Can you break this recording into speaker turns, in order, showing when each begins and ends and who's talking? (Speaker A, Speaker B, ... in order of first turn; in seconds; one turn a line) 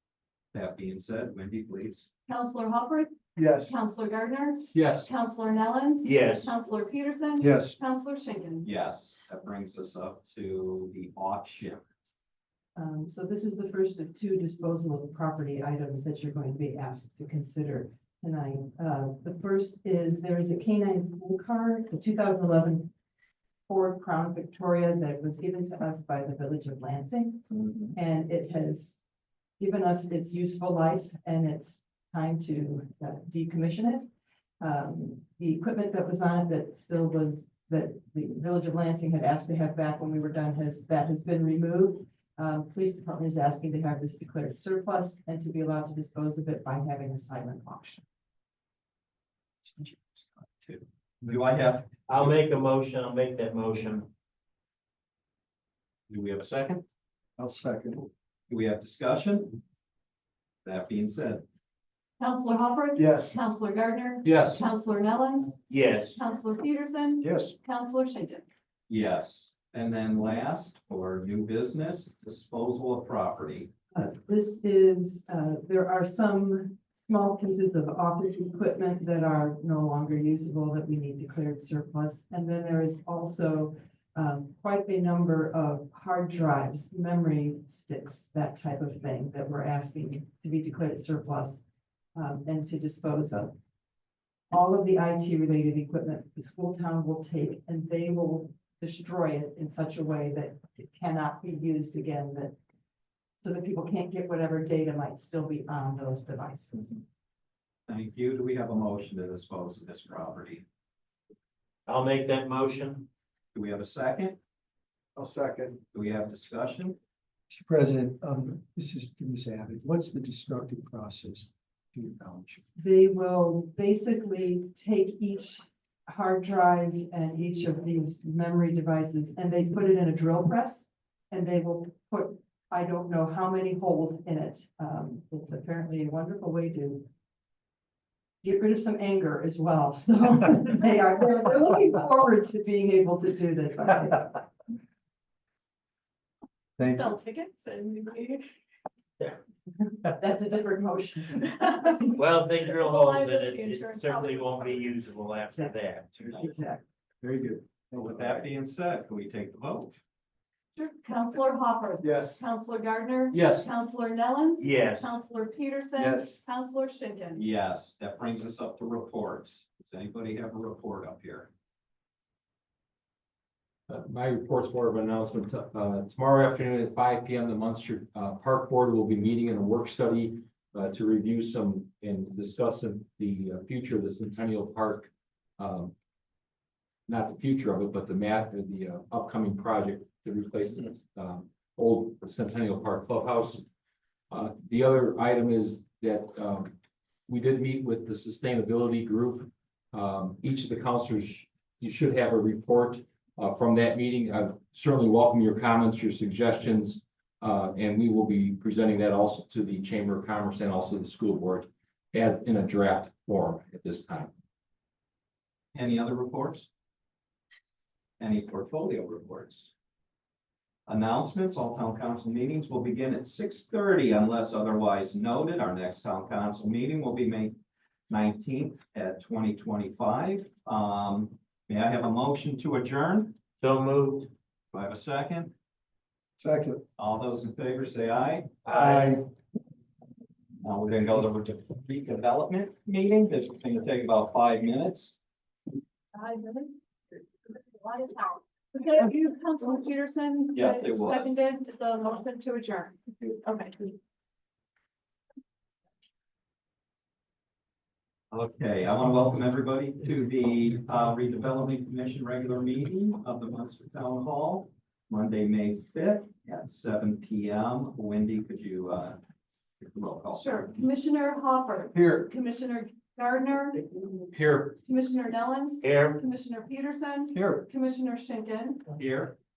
Speaker A: 0.5-2.1
Speaker B: 2.3-8.7
Speaker C: 3.4-3.7
Speaker D: 4.7-5.1
Speaker E: 6.0-6.5
Speaker C: 7.4-7.7
Speaker A: 8.6-11.9
Speaker F: 12.8-22.9
Speaker F: 23.7-29.0
Speaker A: 27.5-27.9
Speaker F: 29.6-34.1
Speaker F: 34.6-48.0
Speaker A: 50.5-52.3
Speaker E: 52.1-54.1
Speaker E: 56.1-56.8
Speaker A: 56.2-56.8
Speaker C: 57.4-58.1
Speaker A: 58.5-59.6
Speaker A: 60.6-61.4
Speaker B: 62.2-68.4
Speaker C: 63.0-63.4
Speaker D: 64.2-64.6
Speaker E: 65.7-66.2
Speaker C: 67.2-67.5
Speaker A: 68.9-73.7
Speaker F: 73.9-91.6
Speaker F: 92.1-93.5
Speaker F: 94.5-102.5
Speaker F: 103.4-107.0
Speaker A: 107.9-110.6
Speaker E: 111.9-113.1
Speaker A: 113.5-114.4
Speaker C: 115.2-115.8
Speaker A: 115.9-117.0
Speaker C: 117.5-122.6
Speaker F: 122.8-137.1
Speaker F: 138.4-144.4
Speaker C: 146.8-147.1
Speaker B: 146.8-148.5
Speaker F: 149.8-151.9
Speaker E: 152.1-156.4
Speaker B: 152.7-154.8
Speaker F: 156.3-156.8
Speaker C: 157.2-158.1
Speaker A: 157.9-160.0
Speaker B: 160.8-167.4
Speaker C: 162.0-162.4
Speaker D: 163.3-163.7
Speaker E: 164.6-165.2
Speaker C: 166.0-166.4
Speaker A: 167.3-171.5
Speaker D: 173.9-185.9
Speaker D: 187.1-193.6
Speaker D: 194.3-196.8
Speaker D: 197.3-214.3
Speaker A: 215.7-216.7
Speaker A: 218.2-219.7
Speaker A: 220.9-227.6
Speaker A: 228.1-233.4
Speaker E: 233.6-234.3
Speaker A: 234.7-235.5
Speaker C: 236.4-236.8
Speaker A: 237.0-238.5
Speaker E: 238.6-239.1
Speaker C: 238.7-239.2
Speaker A: 240.6-245.2
Speaker B: 246.1-254.0
Speaker A: 250.5-251.5
Speaker A: 258.3-269.2
Speaker A: 269.8-270.7
Speaker B: 270.4-274.1
Speaker D: 274.3-274.8
Speaker B: 274.8-278.8
Speaker E: 275.8-276.2
Speaker A: 278.9-279.4